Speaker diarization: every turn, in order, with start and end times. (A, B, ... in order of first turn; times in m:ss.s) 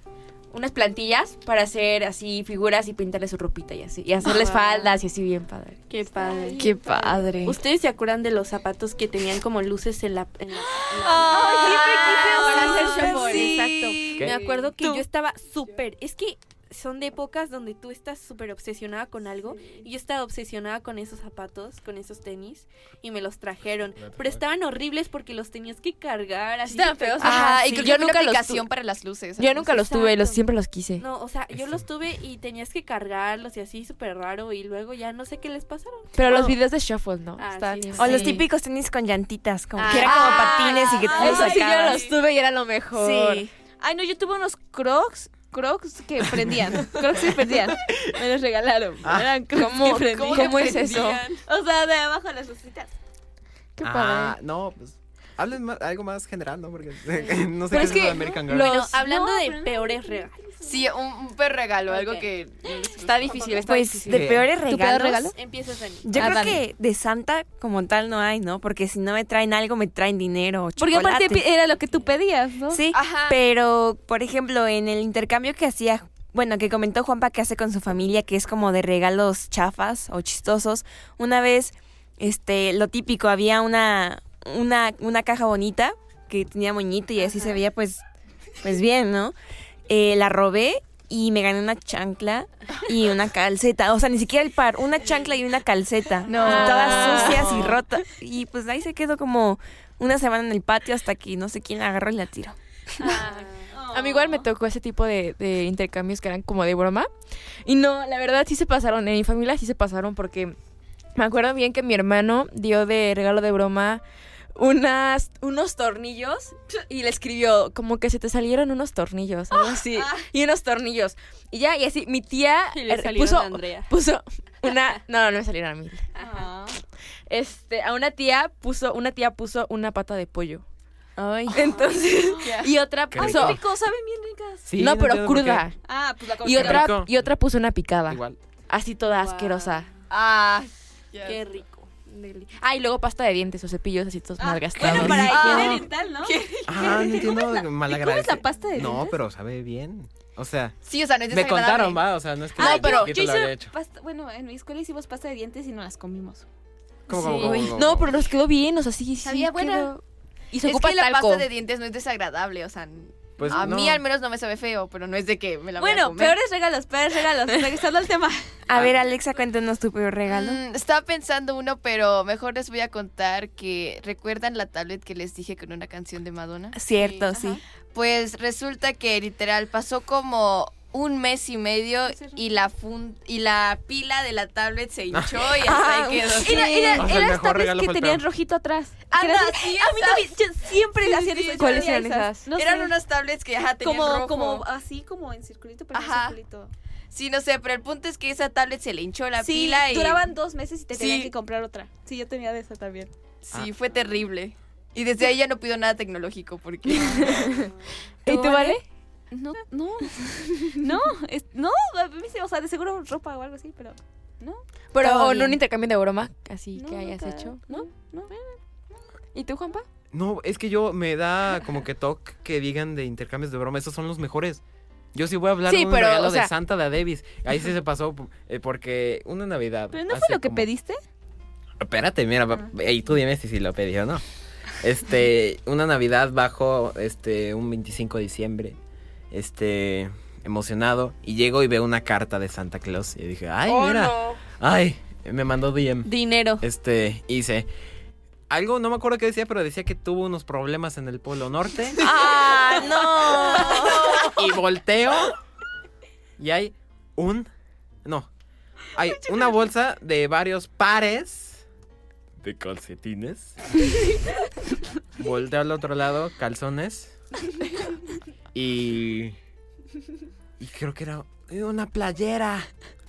0:00.5-0:05.9 A
0:04.2-0:04.9 B
0:05.9-0:06.6 B
0:06.2-0:07.2 C
0:06.5-0:07.0 A
0:06.6-0:07.6 D
0:07.4-0:27.9 B
0:11.0-0:13.6 C
0:11.2-0:14.7 A
0:11.4-0:13.6 D
0:24.0-0:24.4 E
0:26.7-0:28.6 A
0:27.2-0:30.0 D
0:29.4-0:31.0 A
0:29.7-0:30.4 B
0:31.0-0:36.5 B
0:31.5-0:31.8 E
0:36.2-0:38.4 A
0:37.4-0:38.4 B
0:38.0-0:42.0 F
0:39.8-0:41.6 B
0:39.9-0:43.5 A
0:39.9-0:41.4 D
0:40.6-0:42.1 C
0:43.0-0:43.4 F
0:43.8-0:52.9 C
0:49.0-0:49.3 E
0:49.5-0:51.2 A
0:50.3-0:51.4 D
0:53.8-0:54.4 A
0:53.8-0:58.9 E
0:57.7-0:58.4 A
0:57.9-1:00.5 C
0:58.4-1:00.5 B
1:00.6-1:03.7 D
1:01.9-1:02.3 B
1:03.0-1:04.4 A
1:03.2-1:03.6 B
1:03.6-1:05.3 F
1:04.1-1:04.5 E
1:04.6-1:05.3 C
1:05.3-1:06.4 B
1:06.0-1:11.4 F
1:06.2-1:06.6 C
1:06.2-1:06.6 A
1:10.8-1:12.8 C
1:12.7-1:28.0 F
1:12.9-1:13.4 D
1:28.6-1:29.4 F
1:29.9-1:42.6 F
1:36.3-1:37.8 D
1:36.4-1:37.5 A
1:43.0-1:43.3 D
1:43.7-1:44.5 C
1:43.9-1:47.1 A
1:47.6-1:50.6 A
1:51.2-1:54.0 A
1:54.6-2:06.1 A
1:59.7-2:00.2 C
2:02.7-2:03.9 B
2:06.2-2:06.4 B
2:06.2-2:06.8 C
2:07.3-2:10.6 A
2:11.2-2:11.7 D
2:11.5-2:13.6 A
2:12.4-2:12.7 D
2:13.1-2:13.6 E
2:13.2-2:14.7 C
2:14.7-2:15.6 E
2:14.8-2:15.8 A
2:15.8-2:16.9 C
2:16.4-2:19.9 A
2:16.5-2:17.3 E
2:18.1-2:18.4 E
2:19.1-2:19.9 B
2:20.1-2:21.6 D
2:21.2-2:21.9 B
2:22.4-2:25.8 A
2:24.4-2:29.2 C
2:24.8-2:25.4 E
2:24.9-2:25.8 F
2:25.3-2:27.2 D
2:26.7-2:30.8 E
2:30.8-2:32.0 D
2:31.3-2:33.7 E
2:32.6-2:36.5 C
2:32.6-2:33.1 D
2:32.6-2:33.0 A
2:37.1-2:38.1 E
2:37.1-2:40.0 A
2:37.2-2:37.8 D
2:39.3-2:39.7 C
2:40.5-2:41.5 A
2:40.6-2:46.4 D
2:43.4-2:44.0 E
2:45.8-2:48.5 C
2:48.7-2:50.6 F
2:50.3-2:57.4 D
2:56.8-2:57.6 F
2:57.9-3:07.1 D
3:02.1-3:02.4 C
3:05.1-3:05.4 E
3:05.6-3:13.0 C
3:06.9-3:08.2 E
3:09.1-3:12.0 D
3:11.6-3:12.5 A
3:12.5-3:14.7 D
3:13.6-3:16.7 C
3:15.9-3:16.4 D
3:17.1-3:20.3 D
3:19.4-3:23.1 C
3:20.9-3:21.3 D
3:23.4-3:27.7 D
3:26.9-3:27.7 A
3:28.3-3:28.8 C
3:28.3-3:28.8 A
3:29.3-3:34.6 C
3:30.2-3:30.9 A
3:34.9-3:38.6 A
3:35.0-3:35.6 D
3:36.8-3:38.3 C
3:39.3-3:39.9 A
3:40.1-3:44.6 E
3:45.2-3:50.7 E
3:45.7-3:46.5 A
3:49.9-3:51.0 C
3:51.8-3:54.2 E
3:54.8-3:58.8 E
3:59.3-4:06.1 E
4:03.7-4:04.4 D
4:06.0-4:06.6 B
4:06.6-4:07.7 E
4:08.5-4:12.0 E
4:12.0-4:14.3 D
4:12.0-4:14.2 F
4:14.2-4:15.3 E
4:16.4-4:17.5 E
4:18.9-4:21.6 E
4:22.4-4:23.6 E
4:25.2-4:27.2 E
4:28.5-4:29.4 E
4:30.6-4:32.7 E